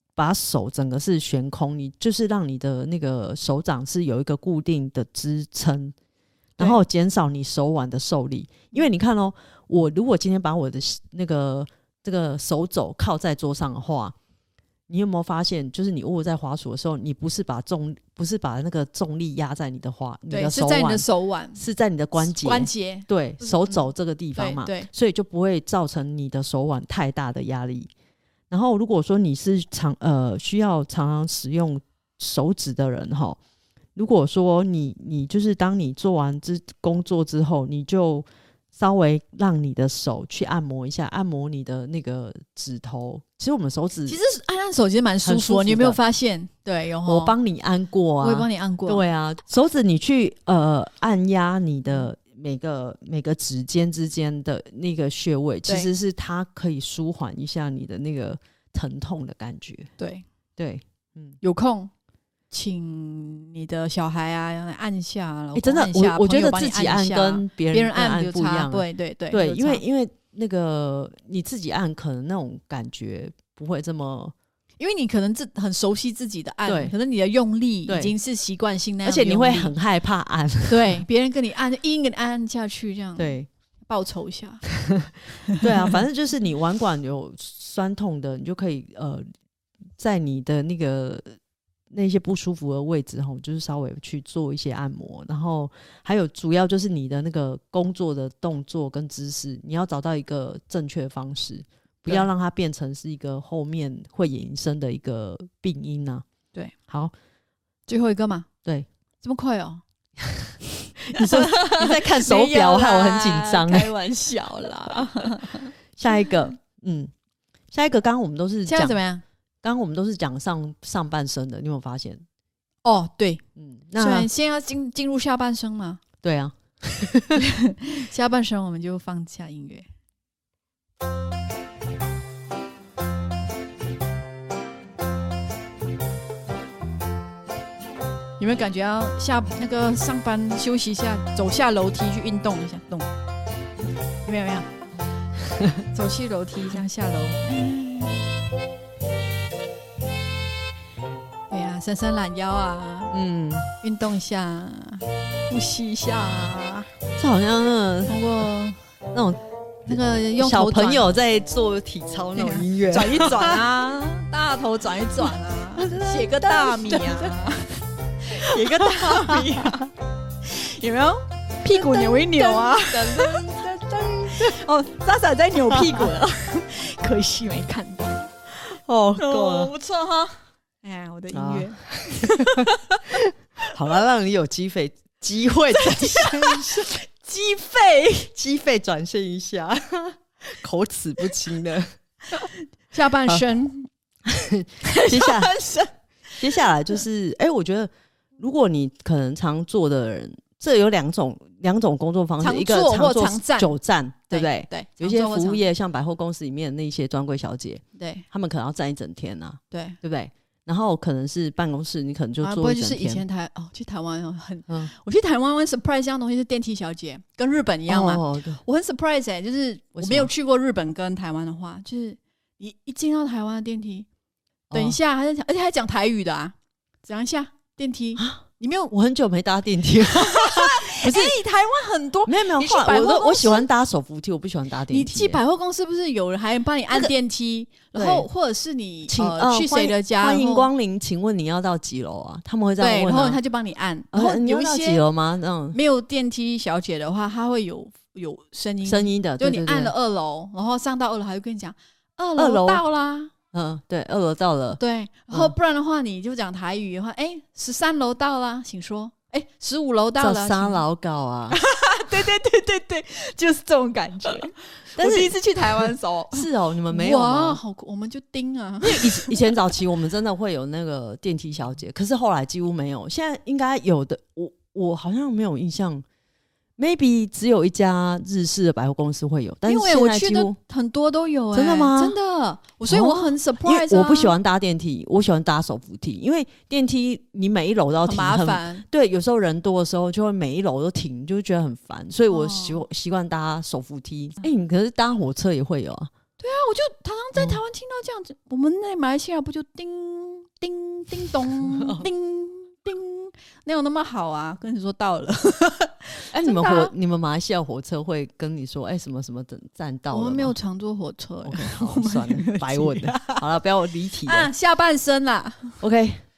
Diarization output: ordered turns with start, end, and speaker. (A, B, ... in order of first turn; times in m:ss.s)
0:00.2-0:05.9 A
0:06.6-0:14.1 A
0:14.9-0:27.9 A
0:20.3-0:21.6 B
0:22.2-0:24.9 B
0:28.5-0:33.4 A
0:34.0-0:44.2 A
0:44.1-0:47.3 B
0:45.2-0:46.0 A
0:47.0-0:59.9 A
0:48.2-0:49.0 B
1:00.0-1:00.2 B
1:00.6-1:01.4 A
1:01.4-1:01.9 B
1:02.5-1:09.8 B
1:05.5-1:14.3 A
1:14.8-1:19.7 B
1:16.6-1:16.9 A
1:17.9-1:18.1 A
1:19.0-1:21.0 A
1:20.7-1:23.3 B
1:23.2-1:23.5 A
1:23.9-1:24.6 B
1:24.8-1:29.2 A
1:25.5-1:25.9 B
1:30.0-1:31.2 A
1:31.9-1:46.2 A
1:46.9-1:47.1 A
1:47.9-1:48.5 B
1:49.2-1:49.8 B
1:50.2-1:50.5 A
1:51.0-1:53.9 A
1:51.1-1:55.7 B
1:56.0-1:57.1 A
1:57.7-1:59.0 A
1:58.6-1:59.2 B
1:59.6-2:02.2 A
2:02.8-2:03.4 B
2:03.6-2:04.3 A
2:04.0-2:06.0 B
2:06.2-2:07.4 A
2:07.4-2:09.9 B
2:18.4-2:23.1 B
2:24.2-2:24.7 B
2:25.9-2:28.2 B
2:31.5-2:33.1 B
2:33.1-2:33.7 A
2:33.8-2:36.9 B
2:37.2-2:38.2 A
2:38.0-2:38.8 B
2:39.1-2:43.6 A
2:39.9-2:41.0 B
2:42.3-2:49.9 B
2:45.8-2:47.3 A
2:48.4-2:49.8 A
2:50.4-2:53.5 B
2:51.7-2:54.6 A
2:54.2-2:58.3 B
2:55.7-2:56.1 A
2:58.6-2:59.7 A
2:59.2-3:03.0 B
3:01.3-3:06.9 A
3:05.8-3:08.3 B
3:08.3-3:11.9 A
3:12.3-3:13.9 B
3:14.2-3:15.5 A
3:14.8-3:16.4 B
3:16.4-3:33.2 A
3:22.4-3:23.8 B
3:24.3-3:25.6 B
3:28.0-3:28.2 B
3:29.7-3:30.0 B
3:32.4-3:44.1 B
3:37.9-3:38.6 A
3:39.9-3:40.3 A
3:44.7-3:45.0 A
3:44.7-3:48.9 B
3:48.2-3:51.4 A
3:50.0-3:53.7 B
3:52.2-3:55.4 A
3:54.9-4:00.7 B
3:57.9-3:58.3 A
3:59.1-4:03.4 A
4:02.8-4:05.0 B
4:04.1-4:05.8 A
4:05.7-4:13.3 B
4:08.8-4:09.9 A
4:12.4-4:12.8 A
4:13.5-4:14.8 A
4:14.8-4:20.8 B
4:20.2-4:21.6 A
4:21.5-4:29.6 B
4:25.0-4:27.6 A
4:28.8-4:36.0 A
4:36.8-4:40.6 A
4:39.6-4:44.3 B
4:41.5-4:42.2 A
4:42.9-4:56.1 A
4:48.0-4:48.8 B
4:52.3-4:52.8 B
4:56.4-5:06.9 B
5:01.7-5:02.0 A
5:06.3-5:10.5 A
5:10.1-5:13.4 B
5:11.4-5:14.5 A
5:14.2-5:15.8 B
5:15.8-5:16.2 A